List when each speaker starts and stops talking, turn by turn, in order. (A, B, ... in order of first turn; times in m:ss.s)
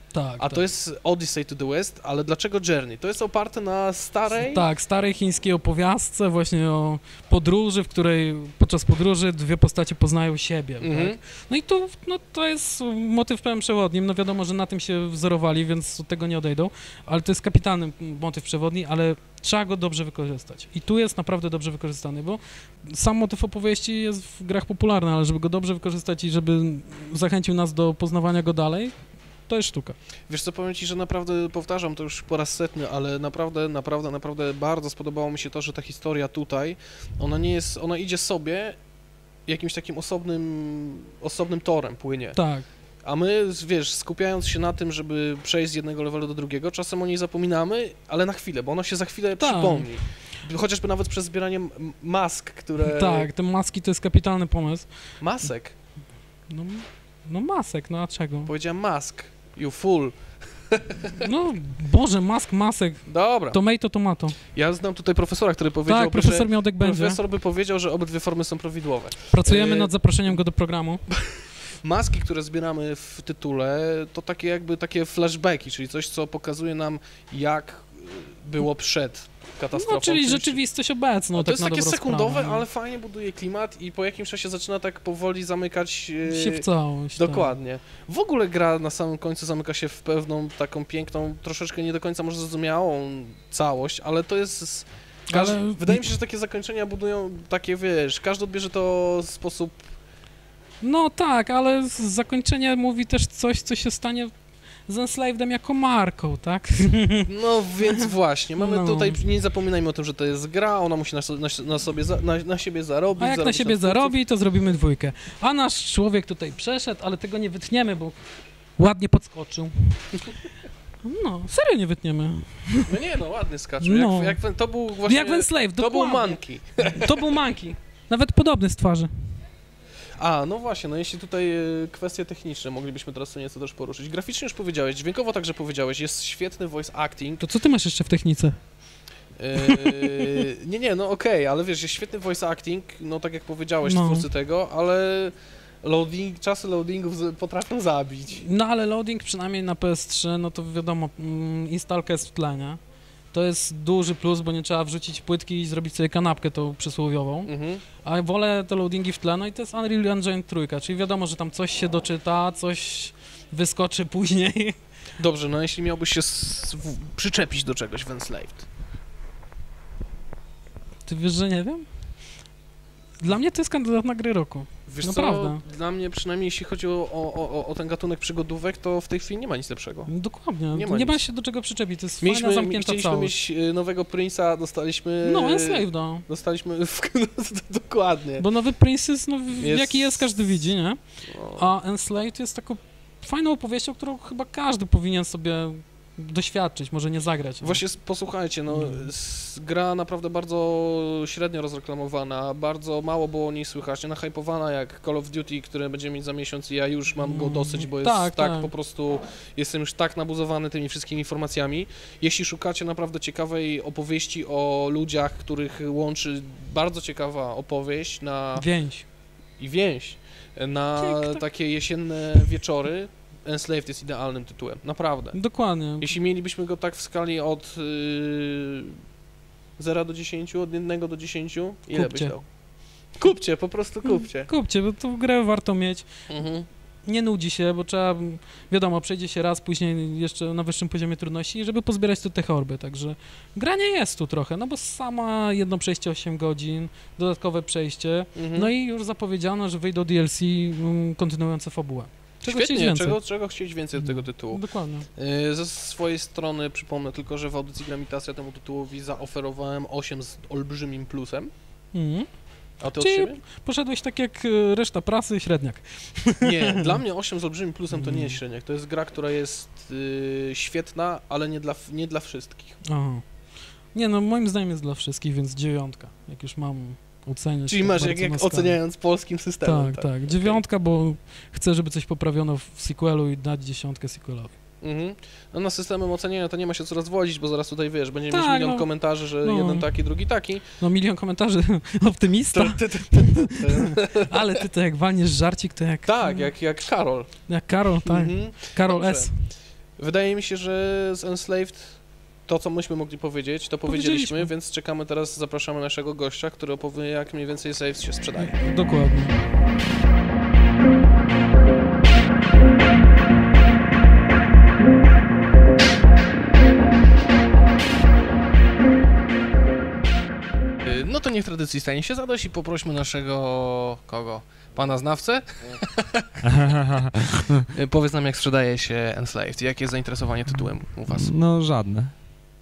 0:00.1-0:00.6 A
0:00.4-0:04.7 B
0:04.4-0:30.0 A
0:10.8-0:11.2 B
0:30.3-0:38.8 B
0:39.5-0:42.4 B
0:42.3-0:42.7 A
0:43.0-0:53.3 B
0:49.4-0:49.9 A
0:52.8-0:54.9 A
0:55.2-0:55.7 B
0:56.5-0:58.5 A
0:58.5-1:00.2 B
1:00.7-1:01.1 B
1:01.0-1:04.4 A
1:03.1-1:03.6 B
1:04.5-1:09.9 B
1:05.9-1:07.2 A
1:09.3-1:11.1 A
1:11.8-1:20.6 B
1:19.7-1:22.6 A
1:21.4-1:39.8 B
1:26.3-1:27.6 A
1:35.3-1:36.1 A
1:40.8-1:44.3 A
1:44.8-1:47.3 A
1:47.3-1:54.2 B
1:47.9-1:49.2 A
1:53.2-1:58.2 A
1:58.8-2:00.3 A
2:01.0-2:02.9 A
2:02.9-2:07.3 B
2:03.8-2:09.1 A
2:10.2-2:17.4 B
2:17.4-2:18.6 A
2:19.4-2:28.4 B
2:19.6-2:20.4 A
2:23.8-2:24.3 A
2:28.3-2:32.8 A
2:33.3-2:44.8 A
2:37.5-2:37.8 B
2:45.2-2:48.7 B
2:51.0-2:51.9 A
2:53.2-2:55.6 A
2:54.9-3:00.1 B
3:00.1-3:03.4 A
3:00.7-3:01.3 B
3:02.2-3:08.5 B
3:05.2-3:06.2 A
3:08.4-3:11.0 A
3:09.6-3:10.4 B
3:11.3-3:11.7 B
3:11.5-3:17.8 A
3:17.6-3:38.7 B
3:18.7-3:19.1 A
3:27.2-3:28.7 A
3:38.6-3:39.1 A
3:39.6-3:45.4 B
3:41.0-3:41.5 A
3:45.3-3:46.2 A
3:46.0-3:49.0 B
3:49.8-3:52.4 B
3:51.9-3:52.4 A
3:53.2-3:54.5 B
3:54.0-3:56.1 A
3:56.3-3:56.7 B
3:57.0-4:13.2 A
4:08.4-4:08.7 B
4:12.4-4:14.6 B
4:14.0-4:15.1 A
4:15.2-4:21.5 B
4:21.9-4:27.0 A
4:22.8-4:23.4 B
4:26.4-4:32.8 B
4:27.9-4:28.4 A
4:32.8-4:33.2 A
4:33.9-4:38.9 A
4:37.7-4:40.6 B
4:39.6-4:44.6 A
4:44.8-4:50.6 B
4:48.3-4:50.1 A
4:50.8-4:56.5 A
4:52.5-4:54.3 B
4:56.0-4:57.5 B
4:57.5-4:59.5 A
4:58.1-5:08.7 B
5:03.8-5:04.5 A
5:08.4-5:09.7 A
5:20.8-5:26.3 B
5:26.4-5:27.6 C
5:27.7-5:31.3 B
5:31.1-5:32.2 C